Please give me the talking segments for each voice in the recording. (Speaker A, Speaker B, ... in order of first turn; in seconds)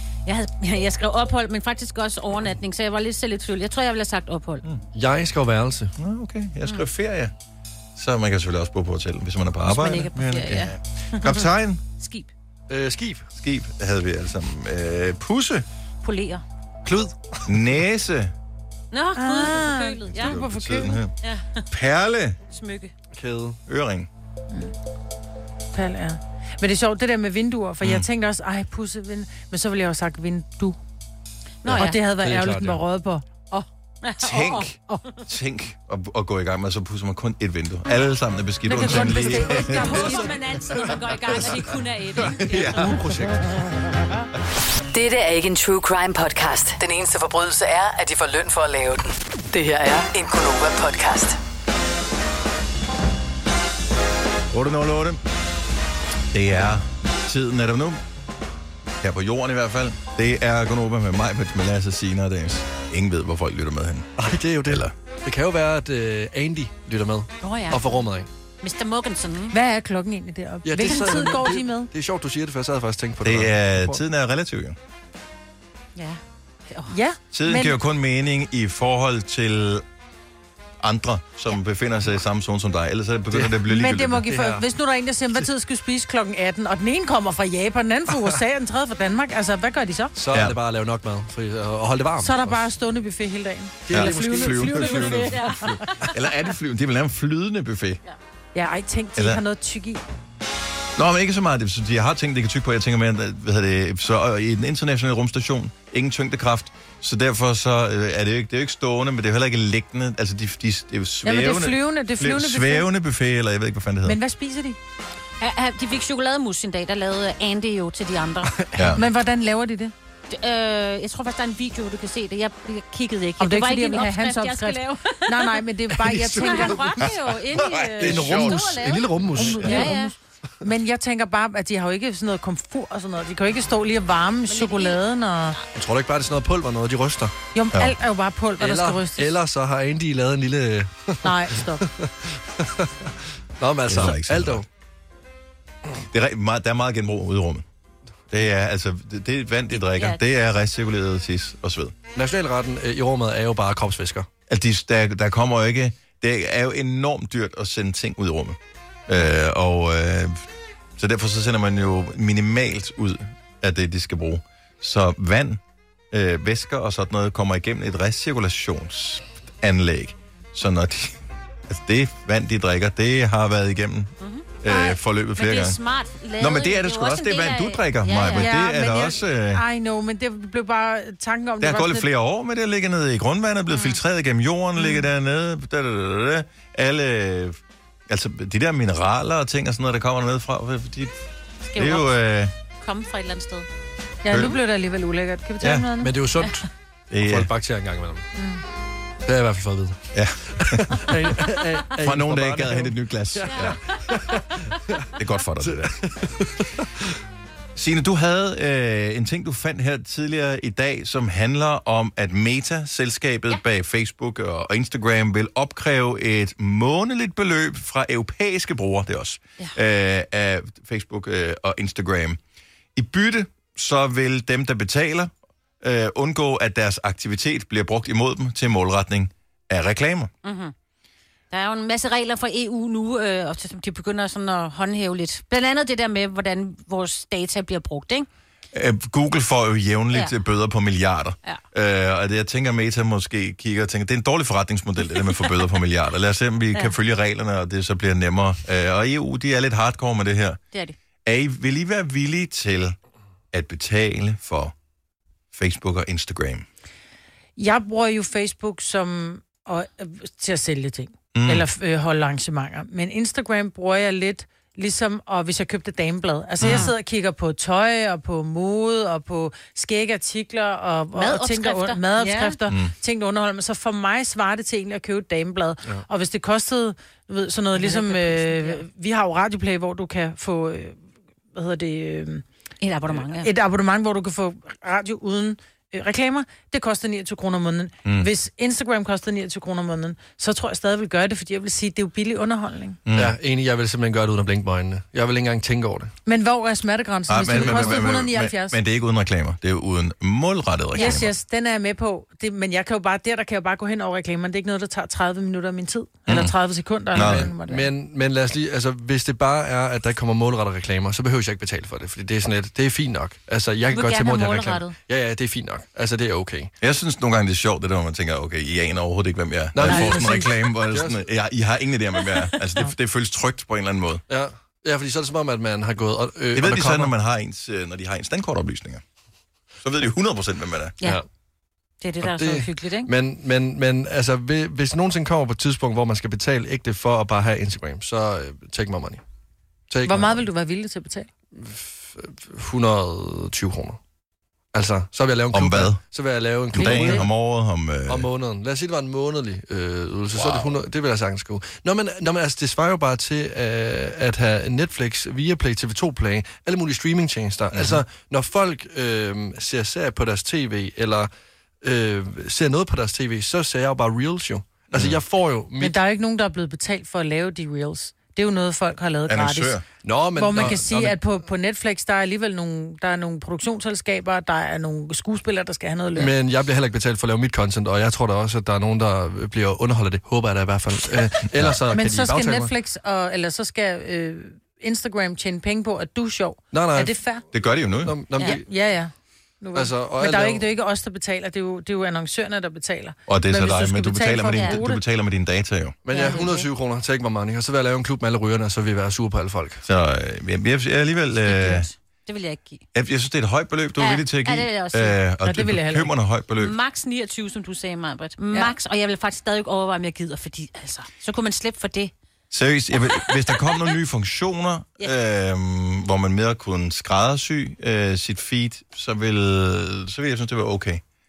Speaker A: 0.2-4.6, 9.7-11.4, 12.0-12.3, 16.0-16.4, 18.9-20.4, 21.2-21.6, 22.5-22.9, 31.6-32.0, 34.0-34.7, 39.5-43.0, 67.4-68.0, 68.6-69.5, 76.0-76.9, 95.0-95.6, 115.4-118.6, 120.3-125.6, 126.4-130.1, 134.5-135.0, 149.7-150.2, 174.2-178.5, 183.7-184.0, 191.7-192.1, 192.8-193.7, 203.5-203.9, 230.4-230.7, 231.5-238.3, 266.6-266.9, 271.1-272.6, 277.8-278.8, 282.8-283.5, 313.9-314.9, 332.0-333.1, 396.1-396.7, 401.4-402.8, 404.0-405.2, 406.6-412.1, 413.0-413.9
Speaker B: 4.9-5.9, 12.7-13.3, 16.8-17.6, 23.1-23.6, 31.7-32.8, 38.8-40.3, 42.4-43.5, 64.2-68.3, 70.6-74.0, 83.3-83.6, 84.2-84.6, 90.1-92.6, 93.8-95.4, 118.6-118.9, 125.9-127.1, 128.0-129.9, 135.7-137.3, 138.6-144.7, 152.1-154.3, 196.0-198.2, 199.2-200.1, 200.6-207.0, 293.1-296.1, 297.5-298.1, 307.1-316.7, 319.7-321.2, 324.3-327.1, 332.2-339.2, 339.9-340.4, 341.5-344.0, 344.7-347.3, 348.1-361.3, 361.8-366.0, 370.0-371.2, 376.1-382.7, 386.7-387.2, 388.0-388.7, 389.7-390.6, 396.1-399.8
Speaker C: 6.0-7.3, 8.0-11.8, 13.3-15.7, 17.4-18.3, 20.1-21.1, 21.7-22.4, 23.7-24.1, 27.8-28.1, 34.2-40.0, 42.5-43.0, 54.5-55.2, 56.3-58.0, 59.0-64.9, 73.2-74.8, 77.3-79.8, 80.8-84.3, 90.3-90.6, 93.9-98.0, 99.2-99.4, 101.0-114.2, 118.8-119.0, 127.3-128.8, 143.8-144.7, 146.1-147.6, 148.3-151.9, 154.5-160.4, 161.0-175.8, 176.4-179.6, 181.6-191.2, 191.7-192.5, 194.3-194.6, 195.6-195.9, 197.1-197.5, 200.1-201.4, 202.0-203.8, 205.2-206.1, 207.8-222.4, 222.9-230.3, 238.7-250.6, 251.2-252.9, 253.5-254.7, 255.5-256.6, 261.3-261.6, 266.6-266.9, 272.7-272.9, 293.0-293.4, 297.3-301.3, 306.3-306.5, 307.1-307.5, 316.8-324.2, 326.5-329.0, 329.8-330.9, 345.5-346.0, 346.7-348.3, 350.3-350.7, 357.7-358.0, 364.9-365.2, 369.3-369.8, 381.5-381.8, 387.5-388.2, 393.3-396.0, 399.8-401.9, 402.9-406.8, 412.5-421.0
Speaker D: 19.1-21.0, 25.7-30.8, 31.7-33.6, 38.6-40.4, 69.5-71.9, 76.9-77.8, 83.7-90.1, 92.2-95.7, 98.5-100.0, 111.2-112.9, 114.0-114.8, 118.9-119.9, 123.4-126.9, 129.3-135.6, 137.5-139.3, 141.2-141.8, 178.3-182.1, 194.2-196.1, 198.3-198.6, 257.6-281.0, 281.5-282.4, 283.4-293.0, 296.2-298.8, 300.9-307.9, 319.8-320.5, 340.0-341.3, 346.7-347.3, 365.8-369.8, 370.3-376.3, 381.9-387.4, 388.4-395.0, 396.1-396.4, 405.4-406.1
Speaker E: 44.9-51.4